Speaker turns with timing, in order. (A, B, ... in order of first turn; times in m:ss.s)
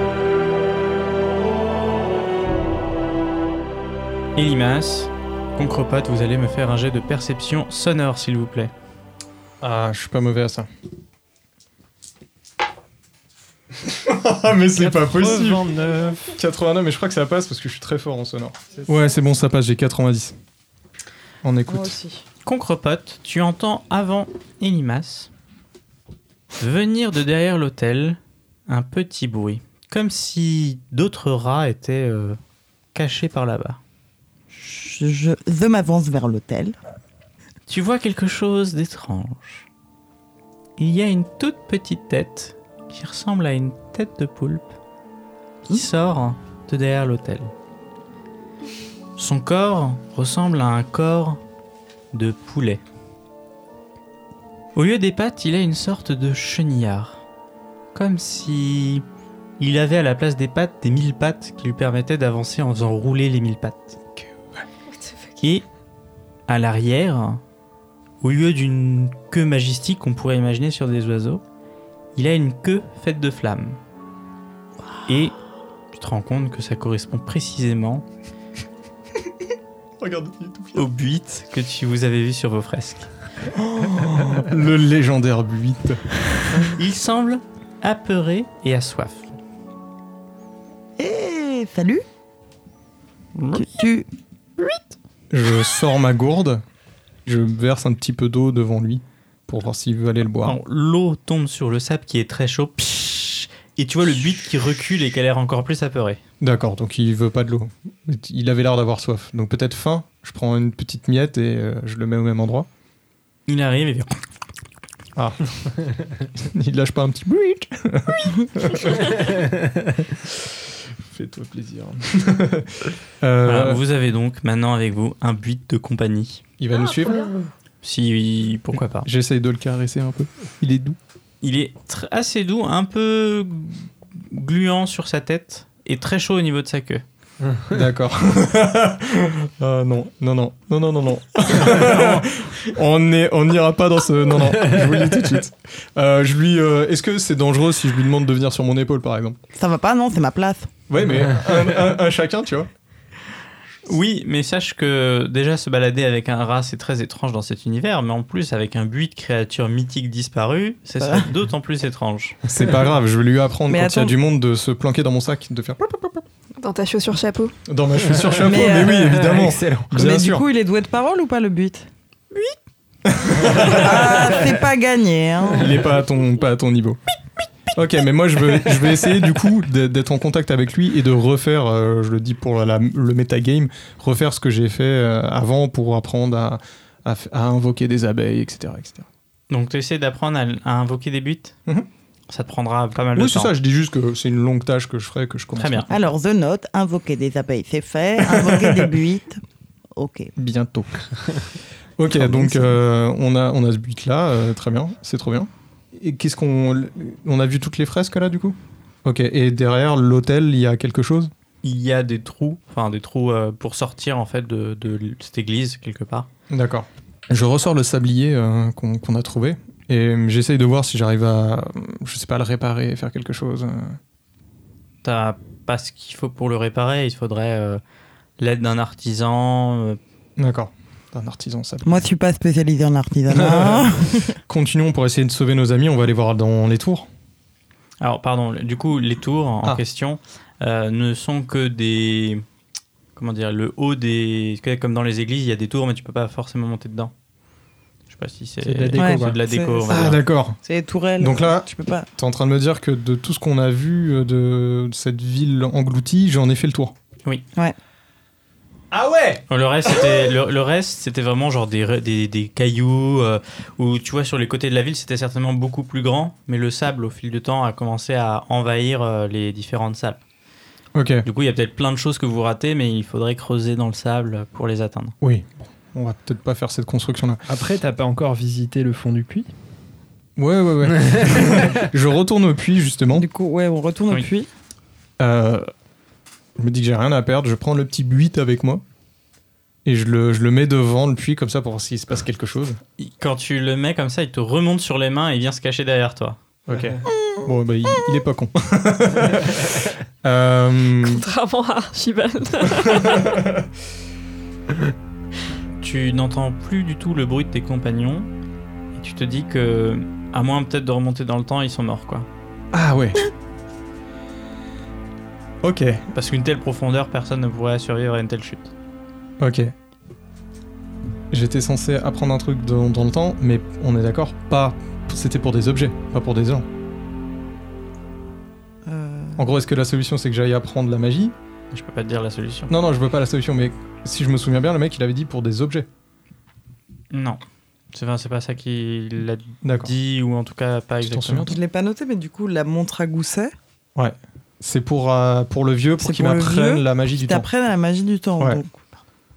0:04.4-0:08.7 A
0:09.6-0:10.7 B
0:13.8-0:15.6 B
0:14.7-0:16.4 C
0:16.4-0:20.4 B
0:21.4-0:22.0 B
0:21.7-0:22.2 D
0:22.4-0:25.3 A
0:26.6-0:32.4 A
0:32.9-0:33.8 A
0:34.5-0:36.8 D
0:37.7-0:39.7 A
0:40.8-0:44.7 A
0:45.6-0:47.5 A
0:49.2-0:51.4 A
0:52.1-0:52.8 A
0:54.7-0:57.2 A
0:57.9-0:59.0 A
0:59.6-1:04.0 A
1:04.9-1:05.3 E
1:06.5-1:07.4 A
1:08.2-1:11.4 A
1:12.1-1:13.8 A
1:15.0-1:15.4 A
1:15.9-1:18.0 A
1:20.0-1:20.8 B
1:20.7-1:23.1 A
1:23.5-1:26.0 B
1:26.7-1:29.3 A
1:31.0-1:32.0 D
1:33.3-1:33.7 A
1:33.5-1:34.1 D
1:35.3-1:36.6 B
1:37.2-1:40.6 B
1:40.4-1:46.2 A
1:46.4-1:52.7 B
1:53.5-1:54.1 A
1:55.2-1:59.4 B
2:01.0-2:03.8 B
2:03.4-2:06.4 A
2:06.6-2:07.3 B
2:06.7-2:07.3 E
2:07.8-2:09.1 A
2:09.0-2:11.0 B
2:11.4-2:17.0 A
2:17.7-2:29.4 B
2:29.5-2:30.7 D
2:30.9-2:32.7 B
2:33.9-2:42.4 A
2:41.0-2:41.3 D
2:42.4-2:46.2 B
2:43.7-2:44.2 D
2:46.6-2:47.5 E
2:47.7-2:50.4 B
2:48.2-2:49.8 C
2:48.4-2:51.9 D
2:53.0-2:54.2 B
2:53.6-2:55.8 D
2:55.6-2:57.0 B
2:57.7-3:09.1 B
3:09.5-3:11.6 A
3:12.3-3:13.5 A
3:13.1-3:15.9 B
3:15.6-3:15.9 A
3:15.9-3:19.4 D
3:18.2-3:18.9 B
3:19.9-3:20.3 D
3:20.4-3:31.3 B
3:22.1-3:22.8 D
3:31.6-3:36.3 A
3:36.5-3:44.0 B
3:45.0-3:47.8 A
3:48.4-3:50.0 A
3:50.4-3:51.9 B
3:51.8-3:54.4 D
3:53.4-3:53.9 B
3:54.5-3:57.1 B
3:58.0-4:02.4 A
4:03.2-4:07.1 A
4:08.1-4:10.2 A
4:08.6-4:09.4 C
4:09.0-4:10.1 D
4:09.9-4:10.6 B
4:10.6-4:12.1 D
4:11.2-4:11.6 B
4:12.2-4:16.9 B
4:18.9-4:20.2 B
4:19.5-4:30.2 A
4:30.9-4:31.2 B
4:31.2-4:35.1 A
4:35.2-4:37.4 B
4:37.5-4:39.5 C
4:40.4-4:43.2 B
4:43.1-4:44.5 D
4:45.2-4:45.6 B
4:46.6-4:48.8 B
4:49.8-4:52.8 B
4:53.0-4:56.4 A
4:56.7-5:01.2 B
5:01.0-5:03.4 E
5:03.0-5:03.7 B
5:05.8-5:08.3 A
5:08.9-5:12.3 A
5:12.7-5:13.3 B
5:15.6-5:16.0 B
5:16.1-5:18.7 A
5:19.4-5:19.7 B
5:21.3-5:26.6 B
5:28.8-5:29.5 D
5:29.4-5:31.3 B
5:31.7-5:32.7 A
5:32.7-5:35.9 B
5:37.1-5:37.4 A
5:37.9-5:41.5 A
5:39.6-5:39.9 B
5:41.0-5:41.5 B
5:41.5-5:43.5 D
5:44.0-5:47.5 B
5:46.0-5:49.0 D